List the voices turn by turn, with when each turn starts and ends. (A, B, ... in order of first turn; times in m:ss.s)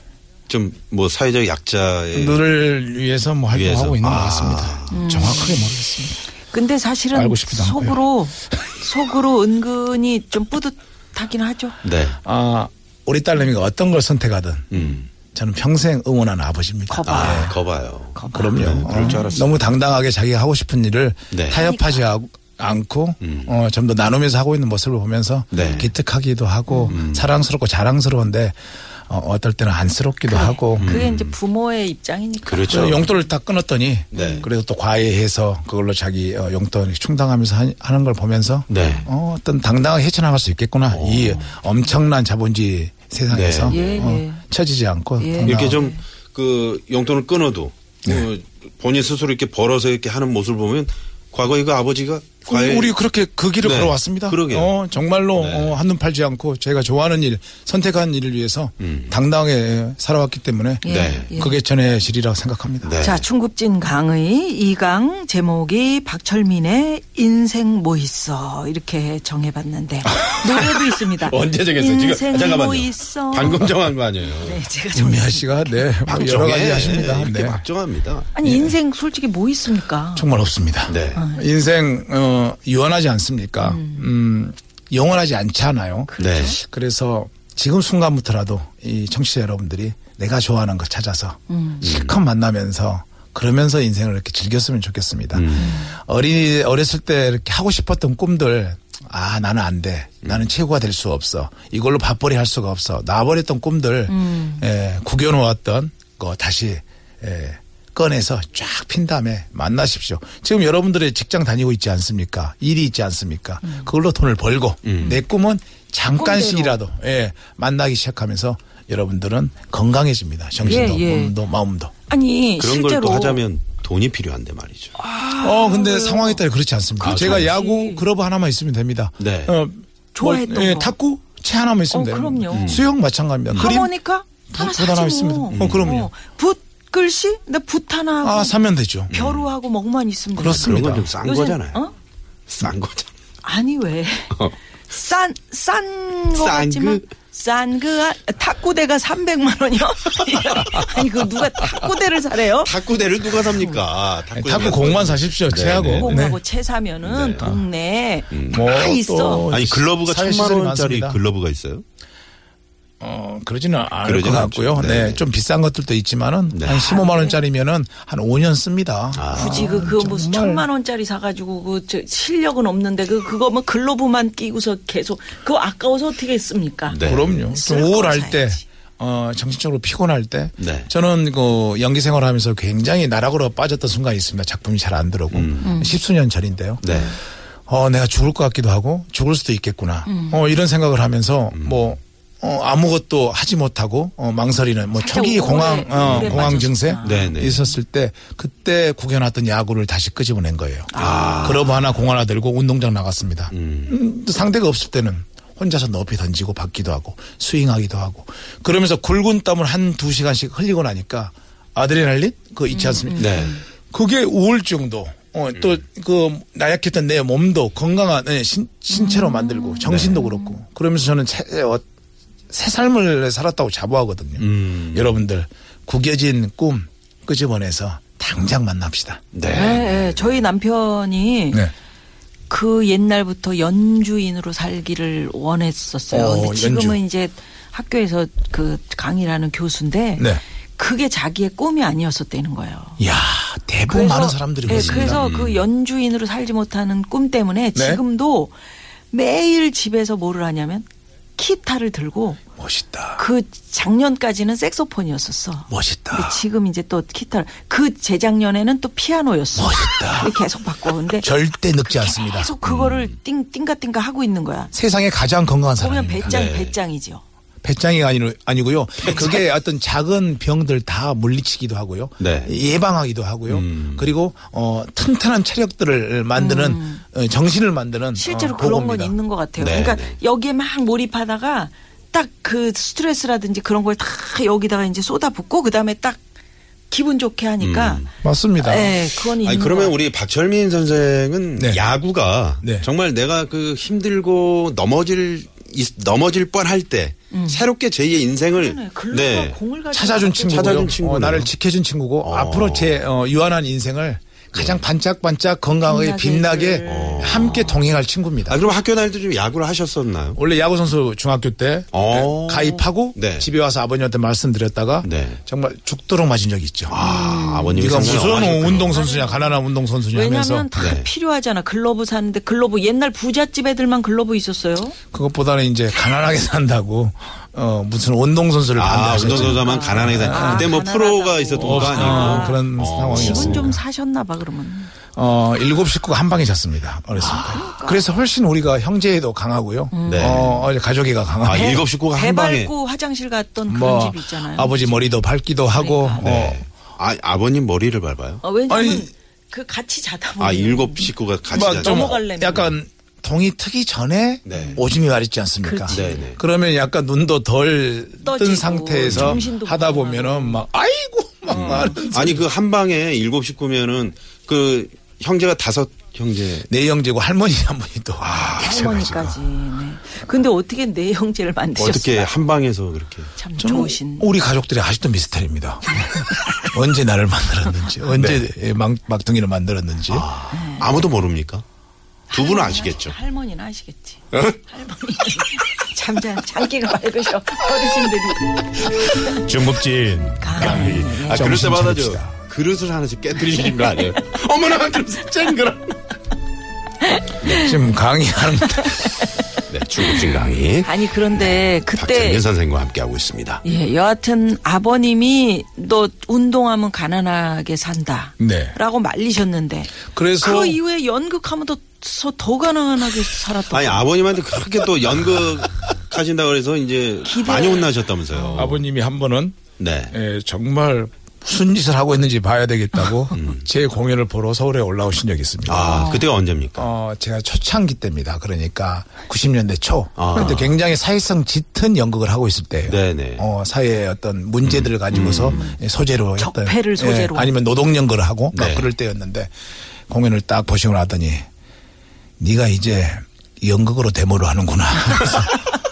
0:00.5-0:02.5 A
0:02.1-0:06.3 B
0:03.5-0:05.0 A
0:04.9-0:11.8 C
0:07.1-0:08.8 B
0:11.8-0:12.2 A
0:12.2-0:17.6 B
0:14.7-0:15.1 A
0:16.9-0:19.5 C
0:17.0-0:19.6 A
0:18.3-0:31.0 B
0:21.3-0:21.6 A
0:21.5-0:22.1 C
0:23.2-0:23.5 A
0:25.5-0:25.9 A
0:26.7-0:27.0 C
0:26.9-0:27.4 A
0:30.3-0:33.1 C
0:30.8-0:31.4 A
0:32.4-0:33.1 A
0:32.7-0:45.8 B
0:34.1-0:34.5 A
0:34.1-0:34.5 C
0:38.7-0:39.1 A
0:40.9-0:41.5 A
0:43.3-0:44.0 A
0:43.7-0:44.4 C
0:45.2-0:46.0 C
0:45.4-0:52.9 A
0:52.5-1:03.0 B
0:53.6-0:54.7 A
0:55.4-0:55.8 A
0:58.8-0:59.1 A
1:00.8-1:01.6 C
1:00.8-1:01.3 A
1:02.8-1:03.2 A
1:03.0-1:13.7 C
1:10.0-1:14.6 A
1:14.2-1:15.9 C
1:14.9-1:17.6 B
1:16.1-1:18.3 A
1:18.3-1:20.3 C
1:18.4-1:18.8 B
1:20.1-2:01.9 B
1:20.9-1:21.3 A
1:21.2-1:21.5 C
1:23.6-1:24.1 C
1:26.1-1:26.6 C
1:26.2-1:26.6 A
1:31.5-1:31.8 C
1:31.8-1:32.2 A
1:35.3-1:35.8 A
1:35.6-1:35.9 C
1:44.1-1:44.6 C
1:53.6-1:53.9 C
1:54.8-1:55.2 A
1:56.2-1:56.8 C
2:00.6-2:01.0 A
2:00.6-2:01.4 C
2:02.1-2:03.4 C
2:02.6-2:04.9 A
2:05.0-2:06.4 C
2:05.4-2:13.9 B
2:07.0-2:07.5 A
2:07.2-2:08.0 C
2:09.2-2:09.6 A
2:10.1-2:11.0 C
2:11.9-2:12.8 C
2:12.5-2:12.9 A
2:13.6-2:18.6 C
2:14.5-2:16.1 B
2:15.5-2:15.9 A
2:18.2-2:19.1 B
2:19.1-2:19.5 A
2:19.1-2:21.9 C
2:20.4-2:21.1 B
2:20.5-2:21.8 A
2:22.5-2:23.1 A
2:23.4-2:24.4 C
2:24.9-2:32.7 C
2:26.3-2:27.1 A
2:32.5-2:36.2 A
2:34.3-2:36.4 B
2:35.9-2:39.5 C
2:37.0-2:37.5 A
2:37.4-2:37.6 B
2:38.3-2:38.7 A
2:38.4-2:41.2 B
2:39.5-2:41.8 A
2:43.0-2:50.7 B
2:44.0-2:45.2 A
2:46.5-2:46.8 A
2:46.6-2:47.4 C
2:49.1-2:49.8 A
2:49.3-2:58.6 C
2:56.9-2:57.4 A
2:57.0-3:07.2 B
3:00.6-3:00.9 A
3:05.3-3:05.7 A
3:05.6-3:06.0 C
3:06.8-3:07.2 A
3:07.7-3:41.8 B
3:10.0-3:10.4 C
3:11.5-3:11.9 A
3:15.0-3:17.7 C
3:16.0-3:17.6 A
3:20.9-3:21.7 C
3:21.0-3:22.0 A
3:23.5-3:24.0 A
3:32.7-3:33.6 C
3:33.2-3:33.5 A
3:38.9-3:40.6 C
3:39.8-3:40.2 A
3:42.5-3:49.3 B
3:44.4-3:45.1 A
3:49.3-3:50.4 A
3:49.4-3:51.7 C
3:52.5-4:03.0 C
3:56.1-3:57.0 B
4:00.2-4:00.4 B
4:03.0-4:05.2 B
4:03.8-4:08.5 C
4:04.7-4:05.6 A
4:07.7-4:08.0 B
4:09.1-4:12.4 C
4:12.6-4:13.2 B
4:13.2-4:24.7 C
4:15.7-4:16.4 B
4:19.5-4:20.4 B
4:21.2-4:22.5 B
4:22.6-4:23.2 A
4:24.7-4:26.4 B
4:25.8-4:27.2 C
4:26.2-4:26.8 A
4:27.6-4:39.2 B
4:29.0-4:29.4 A
4:32.2-4:32.6 A
4:33.5-4:34.1 A
4:36.3-4:37.0 C
4:38.2-4:46.2 C
4:39.6-4:40.2 A
4:46.9-4:48.0 C
4:47.6-4:48.1 A
4:48.2-4:49.0 B
4:48.6-4:50.0 C
4:49.3-4:59.6 A
4:51.6-4:51.8 B
4:52.6-4:52.9 B
4:57.3-4:57.7 C
4:58.5-5:00.9 C
4:59.9-5:08.6 B
5:00.4-5:01.5 A
5:02.2-5:03.1 A
5:04.5-5:04.8 A
5:05.8-5:07.8 C
5:06.8-5:07.8 A
5:08.4-5:10.4 A
5:10.3-5:17.0 B
5:11.9-5:13.5 A
5:15.0-5:15.4 A
5:16.9-5:18.9 A
5:17.0-5:25.0 C
5:17.7-5:20.7 B
5:20.8-5:21.1 A
5:25.1-5:30.7 B
5:28.8-5:33.7 A
5:29.5-5:34.9 C
5:31.6-5:33.8 B
5:35.1-5:41.8 B
5:37.2-5:37.6 A
5:37.5-5:38.0 C
5:39.9-5:40.7 C
5:40.1-5:40.5 A
5:41.4-5:42.7 A
5:41.5-5:45.1 C
5:43.6-5:46.6 B
5:45.7-5:46.3 C
5:46.2-5:48.4 A
5:48.4-5:52.7 C
5:48.7-5:49.1 B
5:50.4-5:52.7 A
5:51.5-6:02.5 B
5:54.4-5:54.8 A
5:54.5-5:54.8 C
5:55.6-5:56.3 C
5:55.9-5:56.4 A
5:58.2-6:00.6 C
5:59.0-5:59.4 A
6:01.5-6:06.7 A
6:01.5-6:02.1 C
6:06.7-6:09.4 B
6:08.2-6:08.9 A
6:08.6-6:12.4 C
6:11.8-6:13.3 A
6:13.3-6:14.4 C
6:13.6-6:20.3 B
6:16.1-6:16.7 C
6:18.1-6:18.4 A
6:20.1-6:21.6 A
6:20.5-6:21.0 C
6:22.3-6:29.5 C
6:22.3-6:23.1 A
6:28.9-6:32.4 B
6:30.2-6:31.6 C
6:30.5-6:36.0 A
6:37.0-6:37.8 C
6:37.4-6:39.1 B
6:38.7-6:39.2 C
6:39.7-6:43.6 A
6:40.0-6:40.3 C
6:40.8-6:42.4 C
6:43.6-6:54.1 C
6:48.4-6:48.8 B
6:50.1-6:50.8 B
6:53.7-6:58.8 A
6:55.1-6:55.9 B
6:57.2-6:58.7 C
6:58.5-6:59.6 B
6:59.8-7:00.1 A
7:00.1-7:06.1 B
7:03.3-7:03.6 A
7:05.7-7:06.9 A
7:05.9-7:06.3 C
7:06.7-7:19.5 B
7:10.2-7:10.8 A
7:12.8-7:13.4 A
7:14.6-7:15.6 A
7:15.4-7:15.8 C
7:16.4-7:17.6 C
7:18.5-7:18.9 A
7:20.1-7:21.5 B
7:22.4-7:25.7 B